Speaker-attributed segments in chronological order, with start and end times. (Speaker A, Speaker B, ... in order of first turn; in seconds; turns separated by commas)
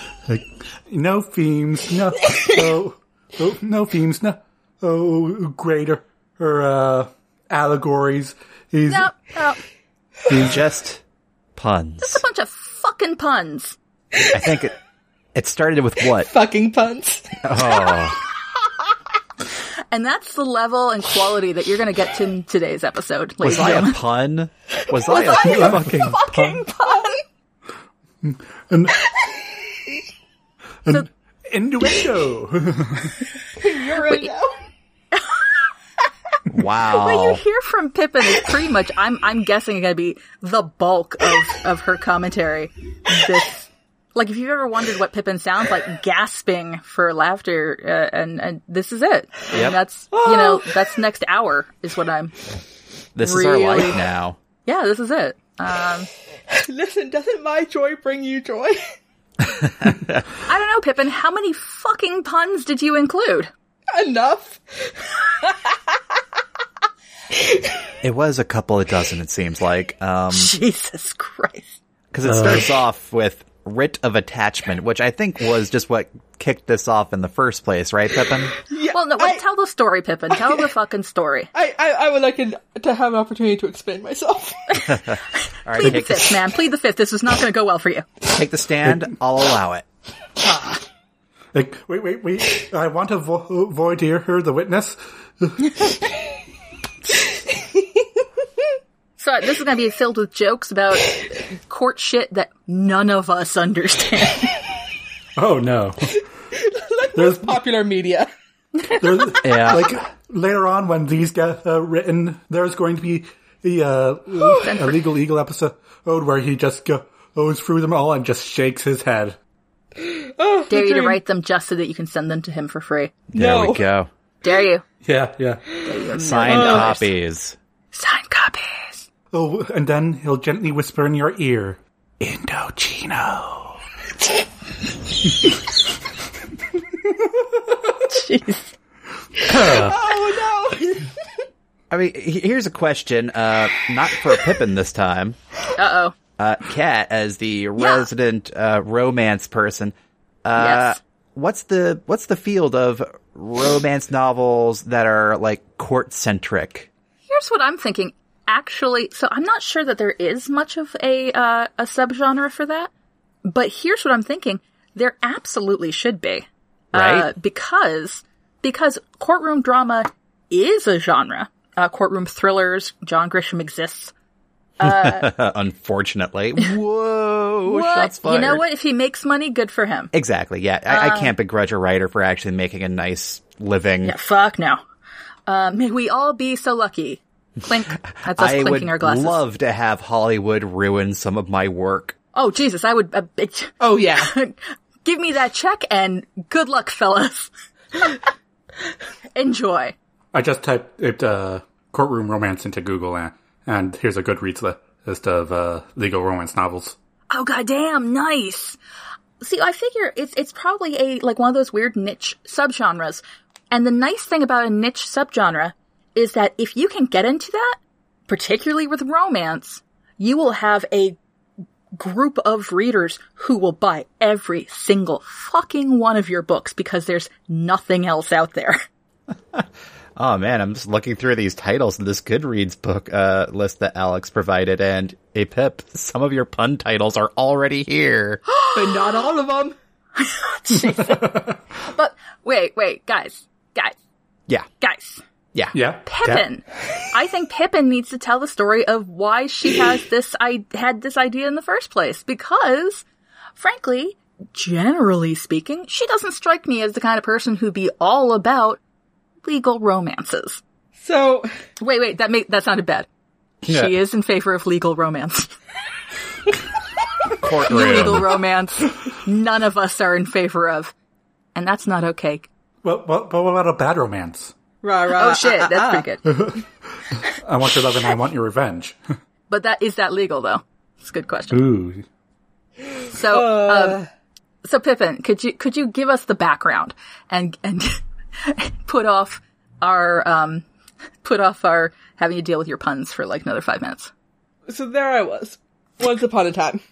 Speaker A: 0.3-9.1, Speaker B: 8.9-9.6, Speaker C: 10.3-11.0, Speaker C: 11.6-12.2, Speaker B: 12.0-13.8, Speaker C: 14.3-14.7, Speaker C: 15.3-16.3, Speaker D: 16.2-18.0, Speaker C: 17.4-18.2, Speaker B: 19.9-24.0, Speaker C: 23.4-26.3, Speaker D: 25.1-25.4, Speaker B: 25.1-27.2, Speaker A: 25.4-26.6, Speaker A: 28.2-29.0, Speaker A: 30.9-33.2, Speaker D: 33.6-34.5, Speaker B: 34.0-34.3, Speaker B: 35.1-35.4, Speaker C: 36.5-37.4, Speaker B: 36.9-52.4, Speaker C: 49.5-49.8, Speaker D: 50.1-50.8, Speaker C: 53.2-54.4, Speaker B: 53.2-54.0, Speaker B: 54.7-56.1, Speaker D: 56.5-58.8, Speaker C: 59.5-60.2, Speaker B: 60.5-63.5, Speaker D: 63.9-66.2, Speaker D: 67.3-67.8, Speaker C: 68.0-70.5, Speaker B: 70.3-71.8, Speaker C: 72.1-78.5, Speaker A: 72.2-72.7, Speaker D: 78.7-79.4, Speaker B: 78.9-81.5, Speaker D: 80.3-80.7, Speaker D: 81.5-84.8, Speaker C: 84.8-86.4, Speaker B: 85.7-88.1, Speaker C: 88.2-89.8, Speaker A: 91.5-95.9, Speaker D: 97.6-97.8, Speaker B: 99.2-104.5, Speaker A: 105.4-106.2, Speaker D: 106.5-108.3, Speaker A: 107.1-107.6, Speaker A: 108.9-119.4, Speaker C: 109.4-109.9, Speaker D: 114.4-114.7, Speaker B: 114.6-114.9, Speaker D: 120.0-121.2, Speaker B: 120.7-123.1, Speaker C: 123.3-124.1, Speaker D: 123.3-123.8, Speaker B: 124.4-124.8, Speaker A: 125.0-125.8, Speaker B: 125.8-127.1, Speaker C: 126.2-127.6, Speaker D: 126.4-126.9, Speaker B: 127.9-129.1, Speaker A: 129.3-133.8, Speaker B: 138.1-138.7, Speaker A: 139.4-140.0, Speaker D: 139.5-141.1, Speaker C: 141.9-145.4, Speaker B: 145.8-146.1, Speaker C: 146.4-149.9, Speaker B: 147.8-148.1, Speaker C: 150.4-156.9, Speaker B: 150.6-151.0, Speaker B: 157.3-162.9, Speaker B: 163.4-174.1, Speaker C: 166.9-167.3, Speaker B: 174.8-175.3, Speaker C: 174.8-178.6, Speaker B: 177.7-180.1, Speaker C: 180.1-184.1, Speaker B: 180.9-181.3, Speaker B: 184.0-184.8, Speaker B: 185.5-189.4, Speaker C: 188.2-192.1, Speaker B: 192.3-198.2, Speaker D: 193.8-194.3, Speaker B: 199.3-199.9, Speaker A: 200.3-206.9, Speaker B: 207.3-208.8, Speaker B: 209.4-221.2, Speaker B: 221.9-228.8, Speaker C: 230.2-238.4, Speaker B: 238.5-238.9, Speaker D: 238.7-239.8, Speaker B: 240.2-243.9, Speaker A: 240.8-241.4, Speaker B: 244.8-245.2, Speaker C: 245.5-246.4, Speaker A: 245.7-246.0, Speaker B: 246.1-253.1, Speaker B: 253.6-258.8, Speaker B: 259.4-260.6, Speaker D: 260.9-261.5, Speaker B: 261.8-263.1, Speaker C: 263.6-263.9, Speaker B: 263.7-265.5, Speaker C: 267.4-268.4, Speaker B: 267.7-270.9, Speaker B: 271.6-272.5, Speaker A: 272.8-274.5, Speaker D: 274.8-276.1, Speaker B: 275.1-276.2, Speaker A: 276.3-279.0, Speaker B: 279.5-281.6, Speaker A: 281.5-282.1, Speaker B: 283.1-284.0, Speaker D: 283.3-284.1, Speaker B: 284.6-290.6, Speaker B: 291.2-294.1, Speaker D: 294.7-296.8